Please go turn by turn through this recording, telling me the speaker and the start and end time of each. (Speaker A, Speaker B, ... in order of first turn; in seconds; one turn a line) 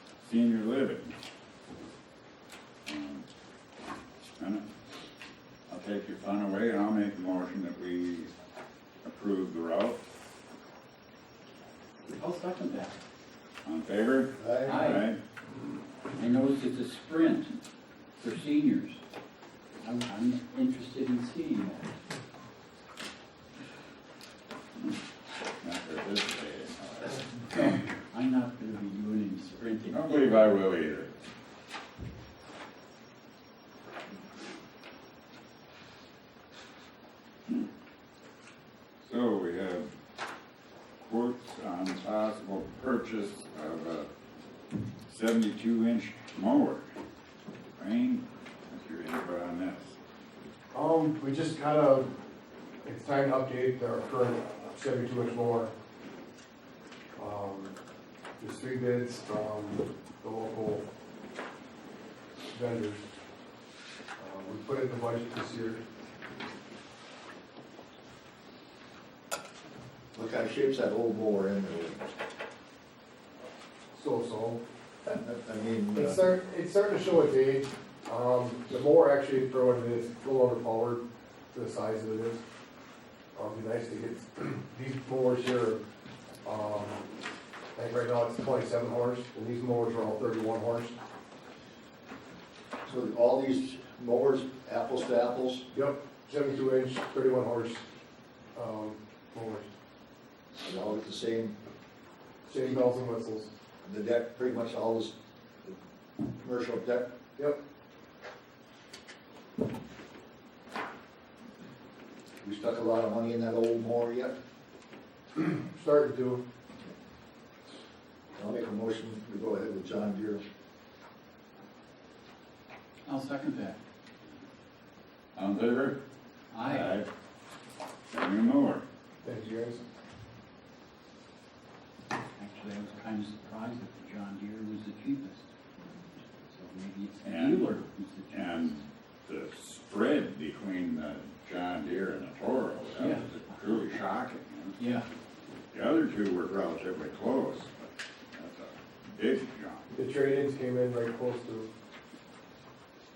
Speaker A: 0.2-1.1
Speaker A: 2.9-3.2
Speaker A: 4.4-4.7
Speaker A: 5.7-8.3
Speaker A: 9.0-10.0
Speaker B: 12.2-13.0
Speaker A: 13.7-15.2
Speaker C: 14.4-14.9
Speaker B: 14.7-15.1
Speaker B: 16.1-17.6
Speaker B: 18.2-19.0
Speaker B: 19.8-21.9
Speaker A: 25.6-27.8
Speaker B: 28.1-30.6
Speaker A: 29.9-31.1
Speaker A: 39.0-39.9
Speaker A: 41.0-44.1
Speaker A: 45.1-46.9
Speaker A: 47.8-50.0
Speaker D: 50.7-52.1
Speaker D: 52.8-55.7
Speaker D: 57.2-57.8
Speaker D: 58.4-60.9
Speaker D: 62.5-63.1
Speaker D: 64.2-65.8
Speaker C: 70.1-72.0
Speaker D: 73.9-74.6
Speaker C: 75.1-76.2
Speaker D: 75.9-82.4
Speaker D: 83.3-85.8
Speaker D: 86.4-87.1
Speaker D: 87.8-91.0
Speaker C: 92.9-95.7
Speaker D: 95.7-97.8
Speaker D: 98.5-99.7
Speaker C: 100.6-101.5
Speaker D: 102.5-103.5
Speaker C: 102.6-102.8
Speaker C: 103.8-105.8
Speaker C: 106.4-107.1
Speaker C: 112.4-114.3
Speaker D: 115.3-116.4
Speaker C: 118.4-120.4
Speaker B: 123.1-123.8
Speaker A: 125.3-126.0
Speaker B: 126.5-127.0
Speaker A: 126.7-127.1
Speaker A: 128.1-128.8
Speaker D: 129.2-129.8
Speaker B: 132.4-135.5
Speaker B: 136.4-138.8
Speaker A: 137.2-137.8
Speaker A: 138.3-144.8
Speaker B: 143.0-143.3
Speaker B: 144.8-145.1
Speaker A: 145.7-149.9
Speaker D: 149.9-151.7